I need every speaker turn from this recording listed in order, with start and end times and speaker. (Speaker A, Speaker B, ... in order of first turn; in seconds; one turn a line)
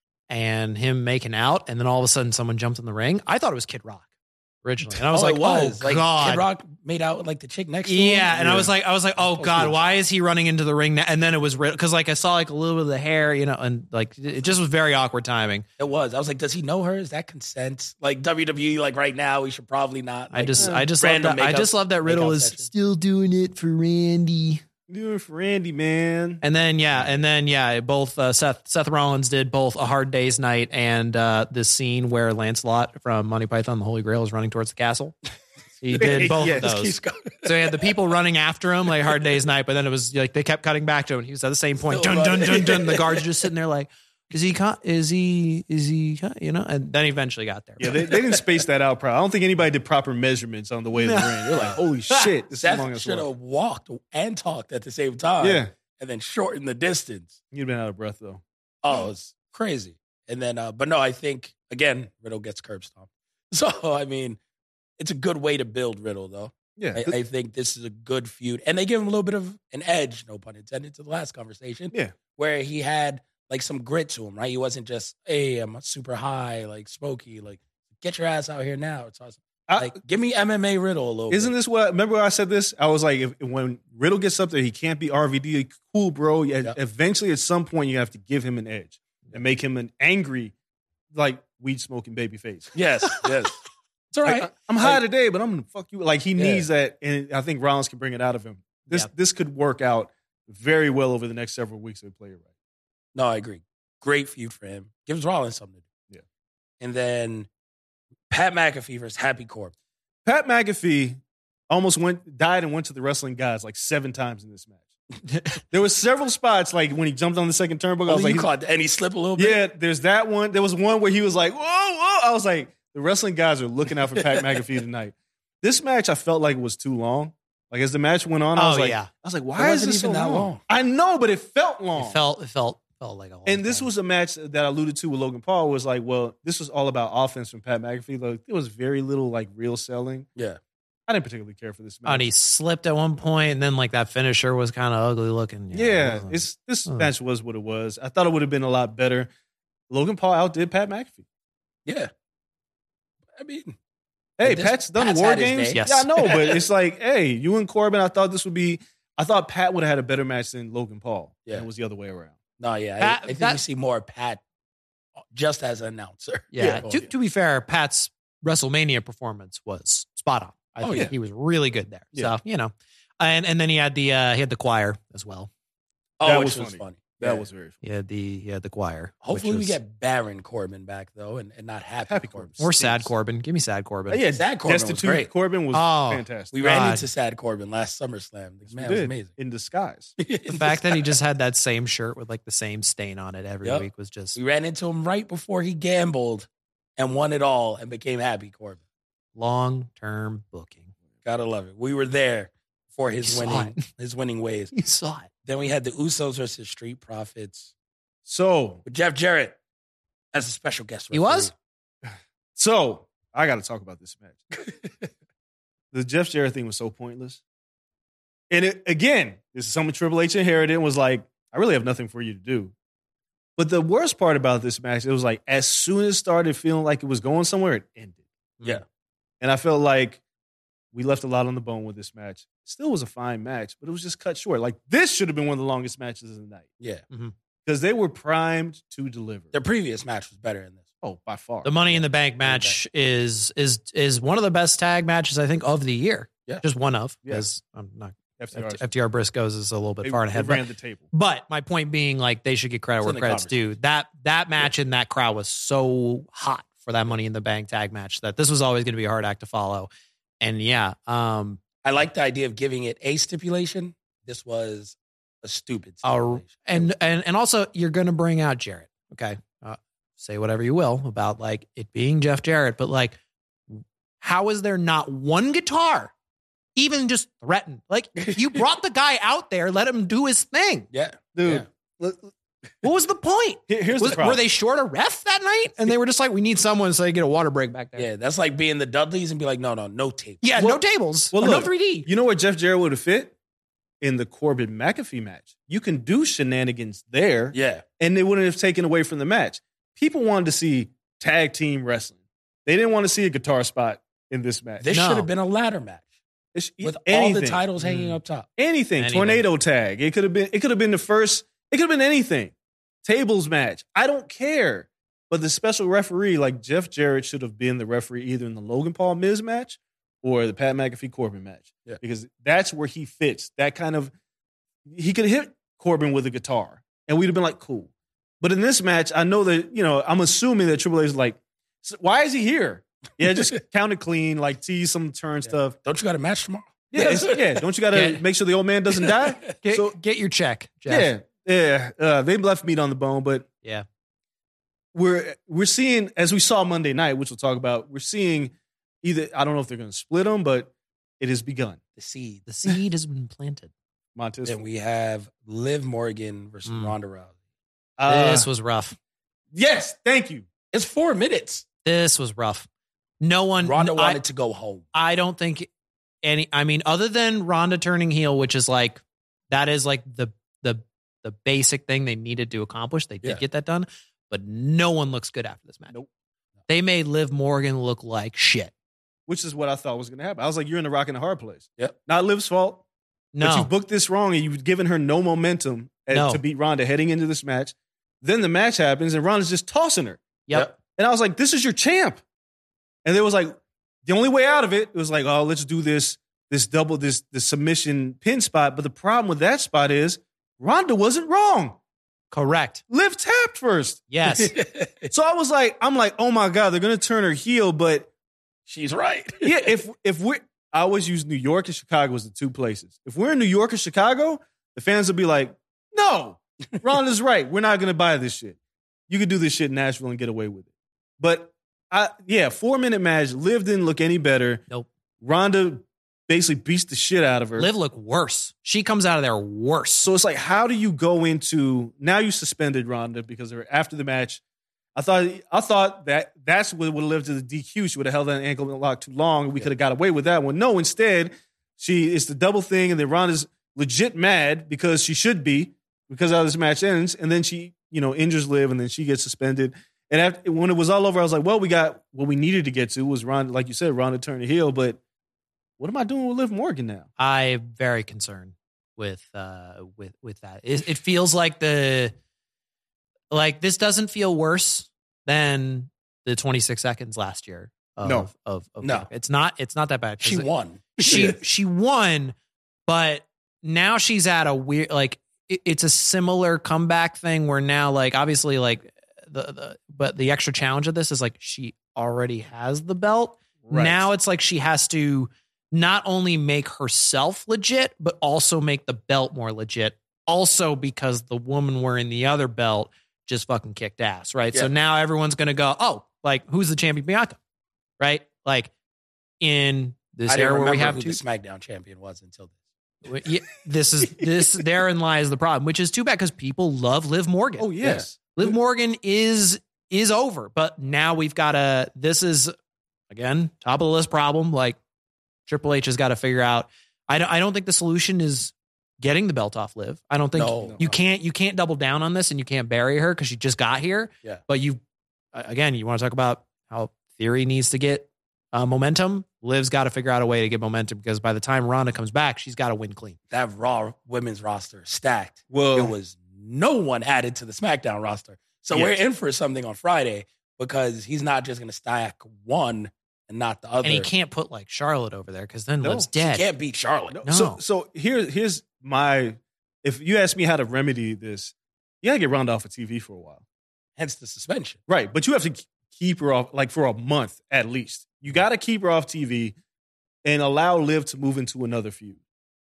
Speaker A: 0.3-4.1
Speaker A: 4.6-6.5
Speaker B: 5.1-9.8
Speaker A: 7.8-15.6
Speaker B: 15.8-22.7
Speaker A: 20.3-24.6
Speaker C: 20.6-20.9
Speaker C: 24.9-26.4
Speaker A: 26.4-35.1
Speaker A: 35.8-48.0
Speaker C: 36.0-36.7
Speaker B: 36.0-37.8
Speaker B: 41.8-43.2
Speaker C: 47.8-53.3
Speaker B: 48.1-48.4
Speaker A: 50.9-51.8
Speaker B: 51.5-51.8
Speaker B: 52.5-57.4
Speaker C: 55.4-55.7
Speaker C: 57.5-58.4
Speaker B: 58.8-64.4
Speaker B: 65.0-81.5
Speaker C: 66.8-67.1
Speaker C: 79.7-79.9
Speaker C: 81.3-90.5
Speaker C: 91.1-92.8
Speaker B: 92.7-93.6
Speaker B: 94.1-95.0
Speaker C: 94.2-102.5
Speaker B: 96.4-96.7
Speaker B: 103.1-105.8
Speaker B: 106.8-107.5
Speaker B: 108.3-109.7
Speaker C: 110.2-114.8
Speaker C: 115.7-118.5
Speaker B: 118.1-119.6
Speaker C: 119.4-132.2
Speaker A: 128.5-129.1
Speaker B: 129.6-130.6
Speaker A: 131.9-133.9
Speaker C: 133.5-140.3
Speaker C: 141.1-142.3
Speaker A: 142.0-147.1
Speaker C: 145.7-149.3
Speaker C: 149.9-151.2
Speaker B: 151.8-152.1
Speaker B: 153.3-153.7
Speaker C: 154.4-162.4
Speaker B: 154.4-156.6
Speaker A: 155.7-156.1
Speaker B: 162.6-164.4
Speaker A: 163.0-163.6
Speaker B: 165.3-167.0
Speaker A: 166.5-175.5
Speaker C: 166.6-167.1
Speaker B: 170.8-171.1
Speaker B: 176.2-177.4
Speaker C: 176.2-177.8
Speaker A: 177.8-179.8
Speaker B: 179.2-182.5
Speaker C: 182.1-183.1
Speaker A: 182.6-184.2
Speaker C: 184.1-186.6
Speaker B: 184.3-185.3
Speaker A: 185.7-187.1
Speaker B: 186.5-189.3
Speaker C: 188.7-190.1
Speaker B: 190.2-191.1
Speaker A: 190.5-194.4
Speaker B: 193.6-198.8
Speaker A: 199.3-200.9
Speaker B: 201.2-204.7
Speaker A: 203.2-203.8
Speaker A: 204.7-205.3
Speaker B: 205.4-207.7
Speaker C: 208.2-208.8
Speaker B: 208.8-209.6
Speaker B: 210.3-211.5
Speaker A: 211.1-211.5
Speaker C: 212.1-214.5
Speaker C: 215.9-217.4
Speaker C: 218.5-222.7
Speaker C: 223.6-228.2
Speaker C: 229.4-230.2
Speaker C: 230.9-236.7
Speaker C: 237.6-239.5
Speaker B: 239.5-240.9
Speaker C: 241.0-241.8
Speaker A: 241.6-261.6
Speaker B: 241.9-242.8
Speaker C: 248.4-248.9
Speaker C: 250.0-251.1
Speaker B: 253.0-253.6
Speaker B: 261.8-266.9
Speaker A: 266.0-273.1
Speaker A: 273.7-276.1
Speaker A: 276.8-280.9
Speaker B: 280.9-281.6
Speaker C: 281.3-282.3
Speaker A: 282.8-288.1
Speaker C: 283.7-284.4
Speaker B: 287.9-290.5
Speaker A: 290.4-292.1
Speaker C: 291.3-293.3
Speaker C: 294.0-304.9
Speaker B: 297.5-297.8
Speaker B: 304.8-306.1
Speaker A: 304.9-305.3
Speaker C: 306.5-307.6
Speaker B: 306.8-308.5
Speaker A: 307.8-308.1
Speaker C: 308.6-312.5
Speaker A: 309.0-309.4
Speaker C: 313.0-324.1
Speaker C: 324.9-327.9
Speaker C: 328.4-335.7
Speaker B: 335.5-337.6
Speaker C: 336.9-339.9
Speaker A: 337.9-338.2
Speaker B: 338.9-339.5
Speaker A: 339.6-341.1
Speaker C: 340.9-343.5
Speaker C: 344.9-351.8
Speaker B: 352.0-352.4
Speaker A: 352.5-353.7
Speaker C: 354.1-354.6
Speaker B: 354.4-357.3
Speaker A: 356.6-356.9
Speaker C: 358.0-358.5
Speaker A: 358.1-359.0
Speaker C: 359.5-360.5
Speaker B: 360.7-361.6
Speaker A: 361.8-362.7
Speaker A: 363.2-364.2
Speaker B: 363.6-364.9
Speaker A: 364.9-365.7
Speaker A: 366.2-375.9
Speaker A: 376.7-378.7
Speaker C: 379.3-382.8
Speaker A: 383.3-383.7
Speaker C: 383.4-390.2
Speaker A: 386.1-386.4
Speaker A: 390.5-390.7
Speaker C: 390.9-392.2
Speaker C: 393.0-401.8
Speaker A: 402.3-402.8
Speaker C: 402.9-404.1
Speaker A: 404.1-404.5
Speaker B: 404.3-405.1
Speaker C: 405.1-408.1
Speaker B: 408.7-409.7
Speaker C: 409.4-418.6
Speaker C: 419.1-420.7
Speaker C: 421.2-424.6
Speaker C: 425.2-427.7
Speaker A: 427.6-430.1
Speaker C: 430.0-434.4
Speaker C: 434.9-455.0
Speaker C: 455.8-457.1
Speaker A: 457.2-462.1
Speaker A: 463.3-472.3
Speaker B: 468.8-469.1
Speaker B: 470.2-471.4
Speaker A: 472.9-497.4
Speaker C: 483.6-484.1
Speaker A: 498.0-498.7
Speaker A: 499.4-501.2
Speaker B: 500.3-502.5
Speaker A: 503.0-512.5
Speaker C: 507.6-508.5
Speaker A: 513.1-514.8
Speaker A: 515.5-524.8
Speaker B: 520.3-521.0
Speaker A: 525.3-533.2
Speaker B: 533.3-544.1
Speaker C: 535.5-535.9
Speaker C: 538.7-539.0
Speaker A: 543.8-546.5
Speaker B: 546.2-547.2
Speaker C: 547.1-553.4
Speaker A: 547.2-547.6
Speaker B: 554.0-554.8
Speaker C: 554.9-559.5
Speaker C: 560.2-562.2